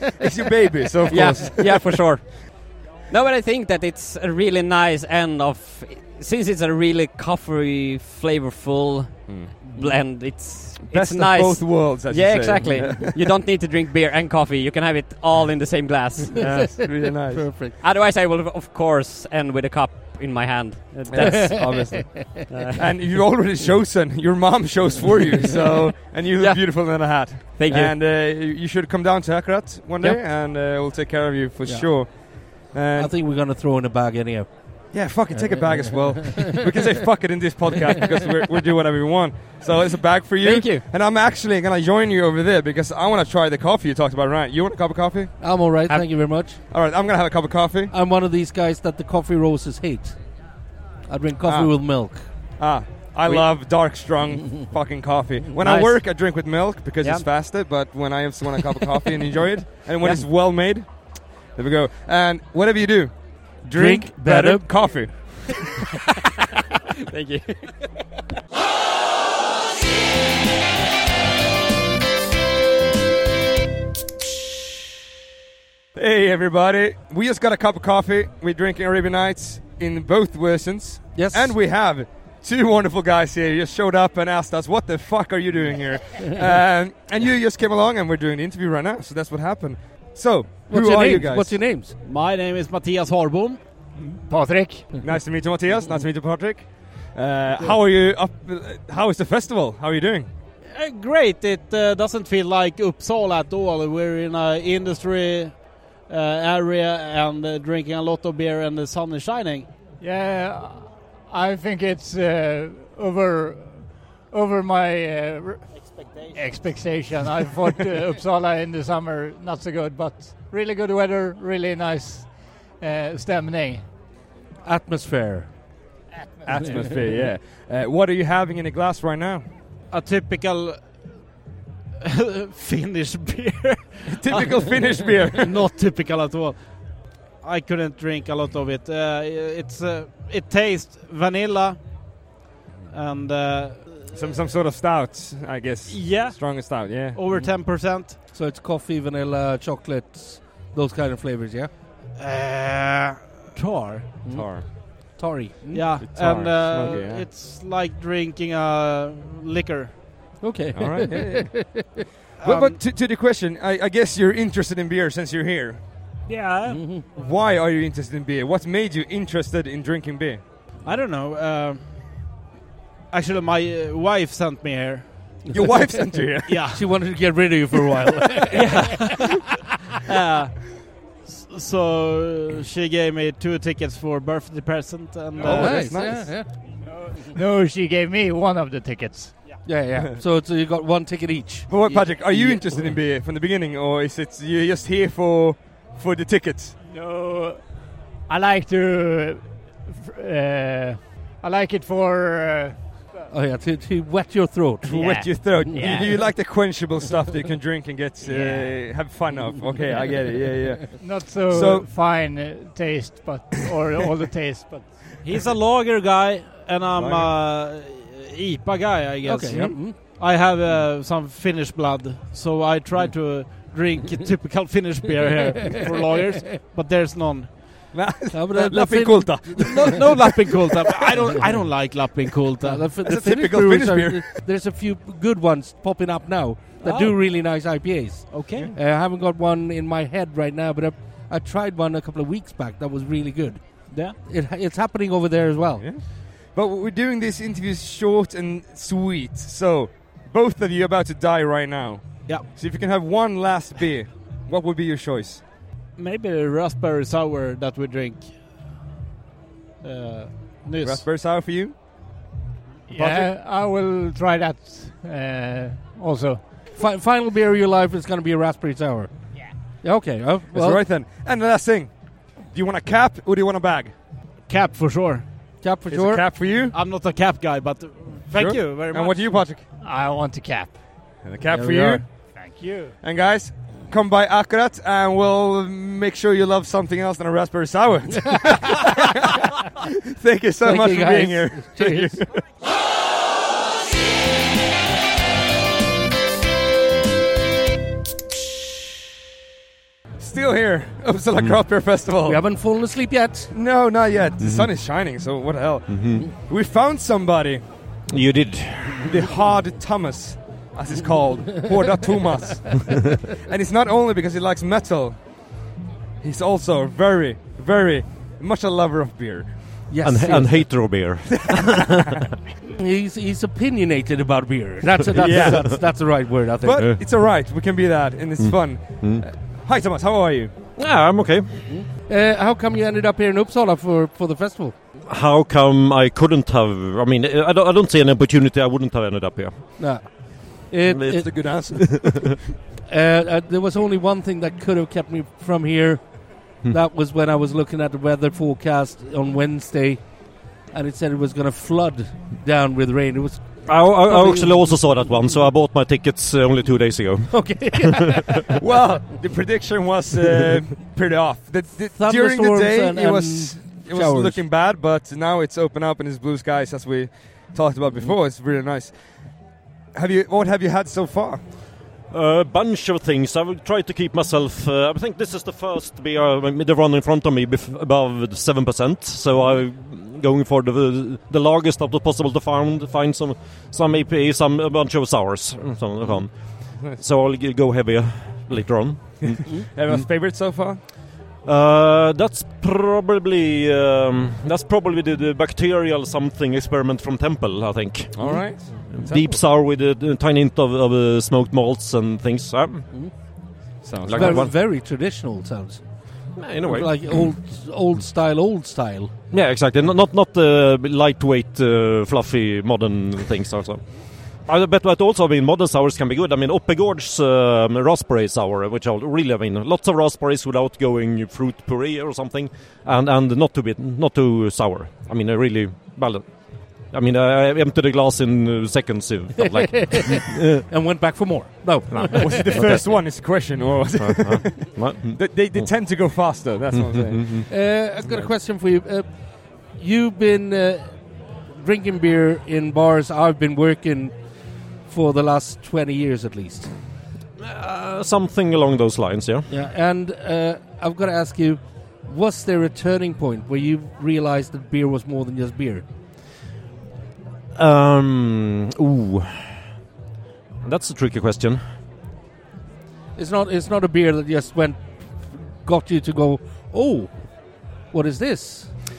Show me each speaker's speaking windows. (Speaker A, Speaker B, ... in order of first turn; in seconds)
Speaker A: 0.2-2.4, 9.3-9.6, 10.8-13.2, 16.3-17.6, 21.1-33.1, 34.9-45.4, 46.7-47.9, 51.4-65.7, 75.9-91.7, 94.9-100.3, 126.4-129.5, 134.1-135.6, 144.1-147.2, 154.2-154.7, 156.0-157.3, 160.7-165.8, 167.1-170.4, 175.5-176.7, 185.4-186.4, 191.7-196.8, 204.8-211.9, 216.9-217.3, 219.5-219.8, 227.9-231.4, 232.9-234.4, 245.8-255.4, 260.8-261.8, 270.5-274.0, 275.9-276.8, 278.3-279.7, 281.2-282.3, 283.0-289.3, 290.1-292.4, 300.2-302.4, 303.5-307.9, 309.0-312.9, 313.4-315.7, 316.2-319.9, 321.2-321.8, 325.1-330.5, 341.1-342.3, 358.6-371.4, 386.7-387.0, 389.2-390.8, 398.1-399.4, 403.8-404.5, 432.1-437.4
Speaker B: 1.1-16.8, 17.8-22.8, 26.4-27.9, 40.4-40.9, 55.6-56.1, 57.0-57.3, 67.1-67.8
Speaker C: 12.6-13.0, 16.5-17.7, 21.2-22.2, 31.6-36.4, 45.4-46.6, 47.9-50.2, 51.1-52.3, 63.7-65.0, 81.1-81.5, 90.7-91.9, 124.6-125.5, 147.3-151.7, 154.2-156.0, 160.4-161.8, 166.7-167.0, 175.5-179.0, 185.4-186.5, 189.6-193.0, 203.3-206.0, 219.2-219.9, 228.3-229.9, 232.6-245.9, 263.0-263.2, 266.7-270.8, 275.6-276.2, 281.5-282.0, 290.6-292.2, 302.2-303.5, 319.9-321.1, 322.8-326.9, 331.7-334.7, 339.8-342.1, 342.9-355.1, 357.3-358.4, 361.9-364.4, 404.1-409.1, 429.6-432.8, 437.5-444.1, 444.7-446.7, 449.5-455.8, 463.1-468.7
Speaker D: 91.9-93.6, 100.6-109.7, 115.8-116.7, 129.9-131.2, 132.0-142.3, 142.9-143.9, 145.9-148.2, 152.2-154.2, 155.7-160.4, 162.4-162.8, 166.2-167.0, 170.8-172.2, 173.1-175.4, 176.5-176.9, 178.5-179.2, 180.1-186.0, 208.3-208.7, 215.2-227.6, 229.6-232.9, 236.8-237.1, 238.3-238.7, 243.9-244.2, 252.2-252.5, 255.9-258.7, 259.8-261.1, 274.4-275.3, 276.5-279.6
Speaker E: 94.2-94.9, 110.0-123.9, 186.8-189.7, 196.8-203.3, 204.9-206.2, 210.9-215.2, 262.9-266.4, 279.7-280.8, 282.2-283.0
Speaker F: 304.4-304.7, 305.9-306.3, 308.1-309.0, 320.0-321.9, 325.2-325.9, 326.8-327.0, 328.4-329.3, 330.7-331.8, 335.1-340.2, 340.9-342.4, 353.6-358.2, 372.1-390.1, 391.4-403.0, 404.0-404.5, 406.4-407.3, 409.3-430.6, 431.9-435.8, 436.7-437.5, 447.4-449.5, 457.5-459.5, 460.6-461.6